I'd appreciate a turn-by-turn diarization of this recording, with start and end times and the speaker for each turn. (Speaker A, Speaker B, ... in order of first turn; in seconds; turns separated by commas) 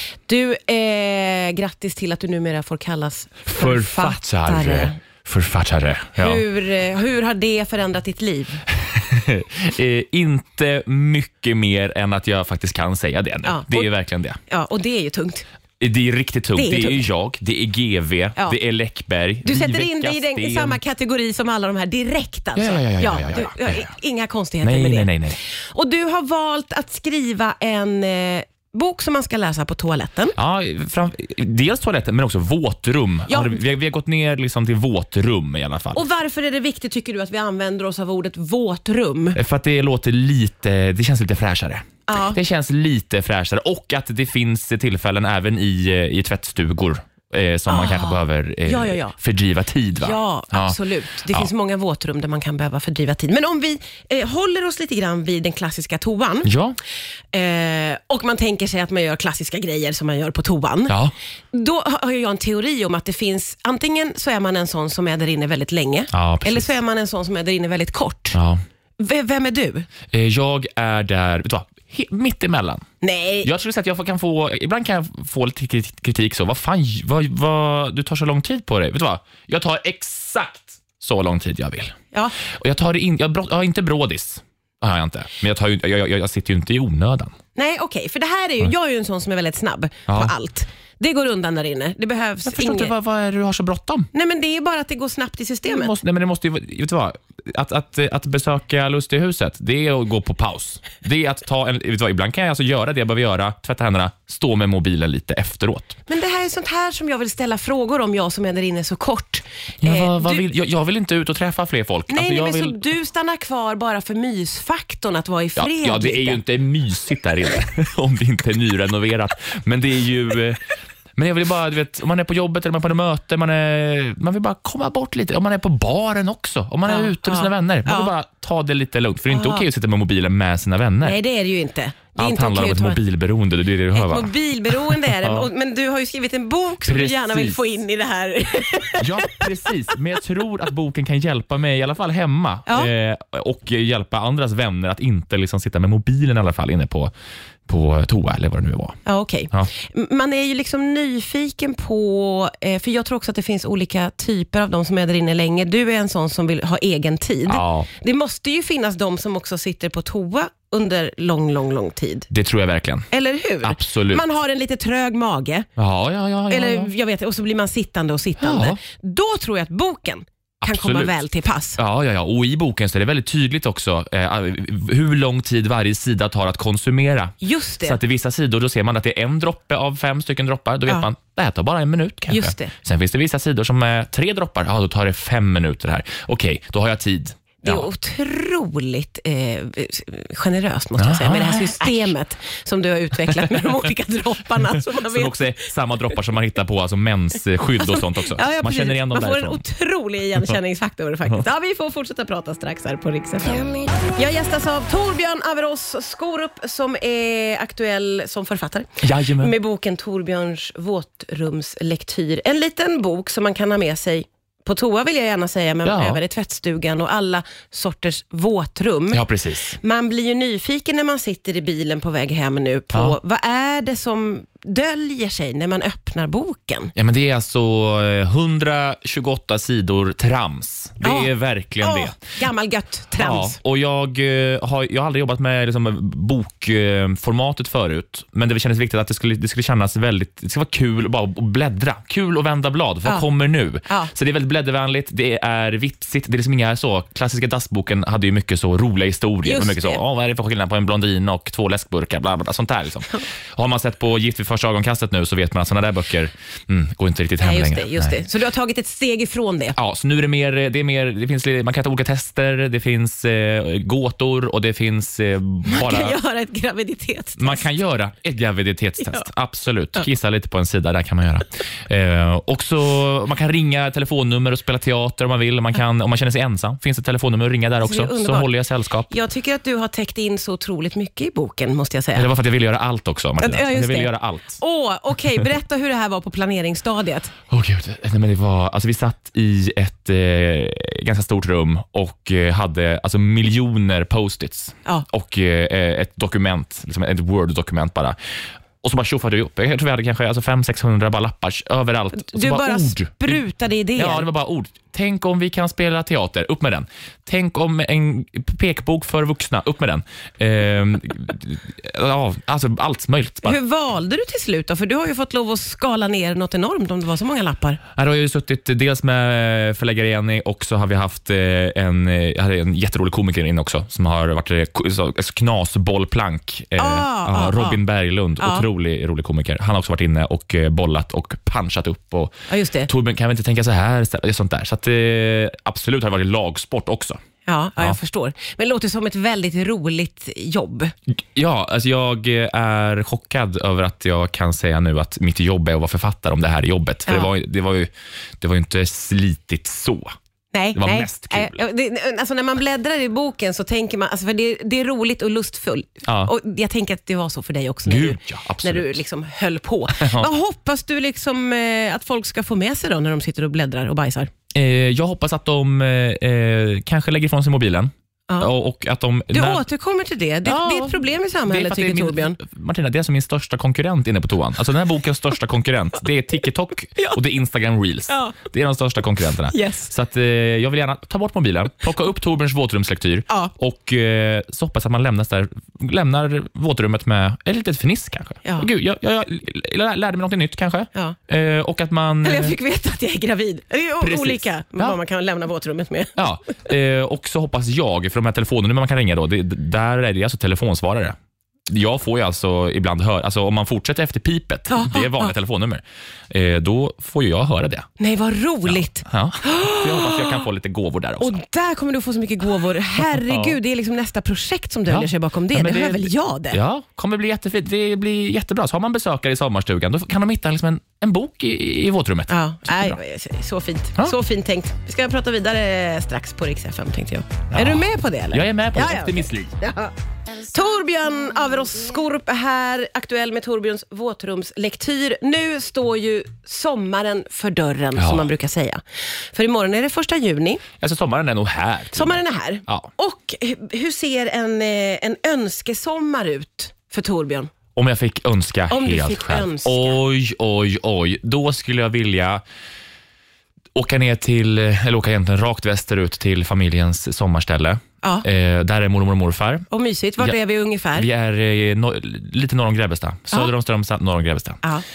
Speaker A: 0.3-5.0, Speaker B: 3.5-6.4, Speaker A: 6.2-8.7, Speaker B: 8.7-14.4, Speaker A: 13.4-13.9, Speaker A: 14.5-15.4, Speaker B: 15.8-20.8, Speaker A: 16.6-17.0, Speaker A: 19.4-30.4, Speaker B: 22.6-23.9, Speaker B: 24.6-25.4, Speaker B: 30.4-36.0, Speaker A: 33.3-33.6, Speaker A: 35.9-39.4, Speaker B: 39.4-51.5, Speaker A: 42.1-42.4, Speaker A: 47.7-49.1, Speaker A: 50.0-56.5, Speaker B: 56.4-56.8, Speaker A: 57.3-61.0, Speaker A: 61.5-68.4, Speaker B: 66.1-66.7, Speaker B: 68.3-68.6, Speaker A: 69.0-69.9, Speaker B: 70.1-72.8, Speaker A: 73.0-73.5, Speaker B: 73.5-81.9, Speaker B: 82.5-87.3, Speaker A: 87.5-92.9, Speaker B: 90.1-90.3, Speaker B: 92.5-94.1, Speaker A: 94.1-95.9, Speaker B: 95.7-106.0, Speaker A: 106.1-110.5, Speaker B: 109.8-112.8, Speaker A: 112.1-116.4, Speaker B: 115.6-120.6, Speaker B: 121.2-131.2, Speaker A: 126.9-128.1, Speaker A: 129.3-129.7, Speaker A: 131.0-133.0, Speaker B: 132.2-135.5, Speaker A: 133.9-139.7, Speaker B: 136.8-137.6, Speaker B: 139.0-147.1, Speaker B: 147.7-149.0, Speaker A: 149.1-162.3, Speaker B: 157.5-157.9, Speaker B: 162.3-163.1, Speaker A: 163.1-165.7, Speaker B: 163.6-164.2, Speaker B: 165.8-166.9, Speaker A: 166.5-171.8, Speaker B: 168.4-168.8, Speaker B: 170.6-171.1, Speaker B: 171.8-187.9, Speaker A: 177.4-178.0, Speaker A: 182.3-182.7, Speaker A: 187.6-195.4, Speaker B: 191.0-192.1, Speaker B: 193.4-193.7, Speaker B: 194.9-199.6, Speaker A: 197.8-219.2, Speaker B: 209.0-209.5, Speaker B: 215.8-216.2, Speaker B: 219.1-219.8, Speaker A: 219.8-226.9, Speaker B: 227.0-232.2, Speaker A: 231.0-231.3, Speaker A: 231.8-233.6, Speaker B: 233.2-258.2, Speaker A: 243.9-244.1, Speaker A: 249.4-250.0, Speaker A: 257.4-259.8, Speaker B: 259.8-266.2, Speaker A: 265.7-267.7, Speaker B: 267.4-279.1, Speaker A: 277.8-278.5, Speaker A: 279.1-282.3, Speaker B: 282.1-284.6, Speaker A: 283.4-287.3, Speaker B: 287.5-298.2, Speaker B: 298.8-303.4, Speaker A: 302.1-304.3, Speaker B: 304.0-313.6, Speaker A: 313.4-317.8, Speaker B: 318.0-332.3, Speaker A: 326.8-327.8, Speaker A: 328.4-328.7, Speaker A: 332.5-332.9, Speaker B: 332.9-337.2, Speaker A: 337.5-340.9, Speaker B: 341.3-347.9, Speaker B: 348.4-350.1, Speaker A: 350.5-364.3, Speaker B: 350.8-351.6, Speaker B: 356.1-356.3, Speaker B: 357.9-359.0, Speaker B: 360.0-360.3, Speaker B: 364.6-369.6, Speaker A: 369.3-372.4, Speaker B: 370.4-392.6, Speaker A: 378.1-378.4, Speaker A: 379.5-379.9, Speaker A: 388.4-388.7, Speaker A: 392.2-396.2, Speaker B: 394.0-395.0, Speaker B: 396.2-401.1, Speaker B: 401.7-407.9, Speaker A: 404.7-405.3, Speaker A: 408.0-410.4, Speaker B: 408.7-411.4, Speaker A: 411.2-416.6, Speaker B: 413.1-413.6, Speaker B: 414.9-423.0, Speaker A: 422.3-429.9, Speaker B: 427.5-429.5, Speaker A: 430.5-440.6, Speaker B: 438.0-438.3, Speaker B: 440.8-442.9, Speaker A: 441.9-447.5, Speaker B: 447.8-452.4, Speaker A: 448.7-450.0, Speaker B: 453.8-459.7, Speaker A: 459.7-461.1, Speaker B: 460.9-464.6